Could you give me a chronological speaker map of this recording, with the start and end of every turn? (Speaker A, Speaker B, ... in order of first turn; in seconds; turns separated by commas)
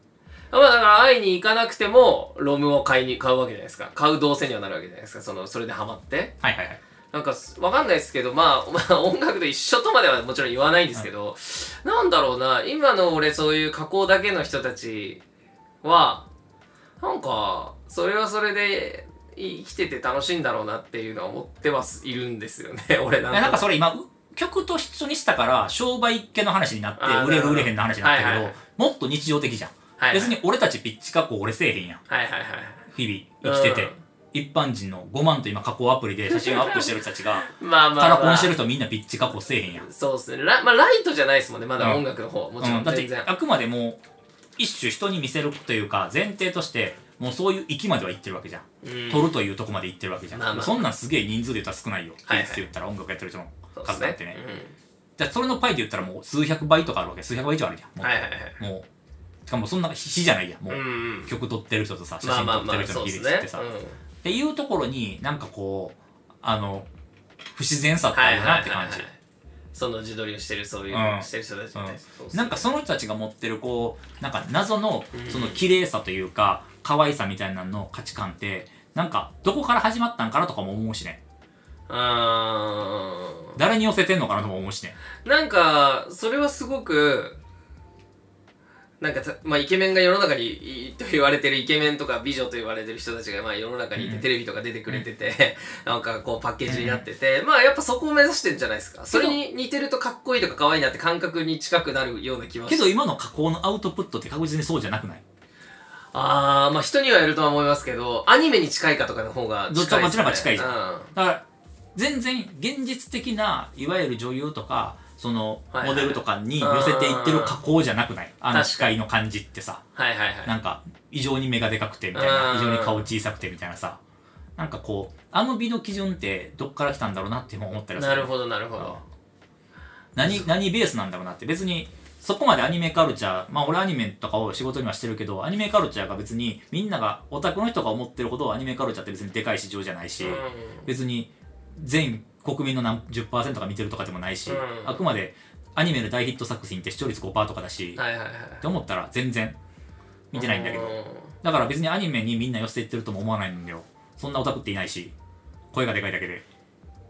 Speaker A: 0.5-6.3, Speaker B: 6.4-6.8, Speaker A: 7.1-15.2, Speaker A: 15.8-16.3, Speaker A: 17.0-23.6, Speaker B: 23.3-32.0, Speaker A: 27.0-28.6, Speaker A: 30.0-30.4, Speaker A: 32.1-32.9, Speaker B: 32.9-39.9, Speaker A: 33.4-34.0, Speaker A: 36.3-38.5, Speaker A: 39.8-43.3, Speaker B: 42.6-44.0, Speaker B: 44.6-54.4, Speaker A: 48.8-49.3, Speaker A: 50.3-50.8, Speaker A: 52.3-52.6, Speaker A: 53.8-54.8, Speaker B: 55.2-58.9, Speaker A: 58.0-58.6, Speaker B: 59.5-63.6, Speaker A: 60.7-61.3, Speaker A: 62.2-64.0, Speaker B: 64.2-66.9, Speaker B: 67.5-69.1, Speaker A: 68.1-69.2, Speaker A: 69.7-72.7, Speaker B: 70.9-81.2, Speaker A: 75.1-75.6, Speaker A: 81.9-83.6, Speaker B: 83.6-85.0, Speaker A: 85.2-87.4, Speaker A: 89.0-102.9, Speaker B: 94.0-94.2, Speaker B: 96.7-97.0, Speaker B: 99.1-99.4, Speaker B: 102.7-105.2, Speaker A: 106.1-111.1, Speaker B: 109.7-111.4, Speaker B: 112.0-119.8, Speaker A: 115.7-117.6, Speaker A: 118.5-118.9, Speaker A: 120.0-120.5, Speaker B: 120.5-124.0, Speaker A: 122.1-123.1, Speaker B: 124.6-129.0, Speaker A: 128.0-129.0, Speaker B: 130.2-148.0, Speaker A: 130.2-130.5, Speaker A: 140.2-140.9, Speaker A: 144.5-145.0, Speaker A: 148.0-148.6, Speaker B: 148.6-149.6, Speaker B: 150.3-155.1, Speaker A: 150.3-151.3, Speaker B: 155.7-156.4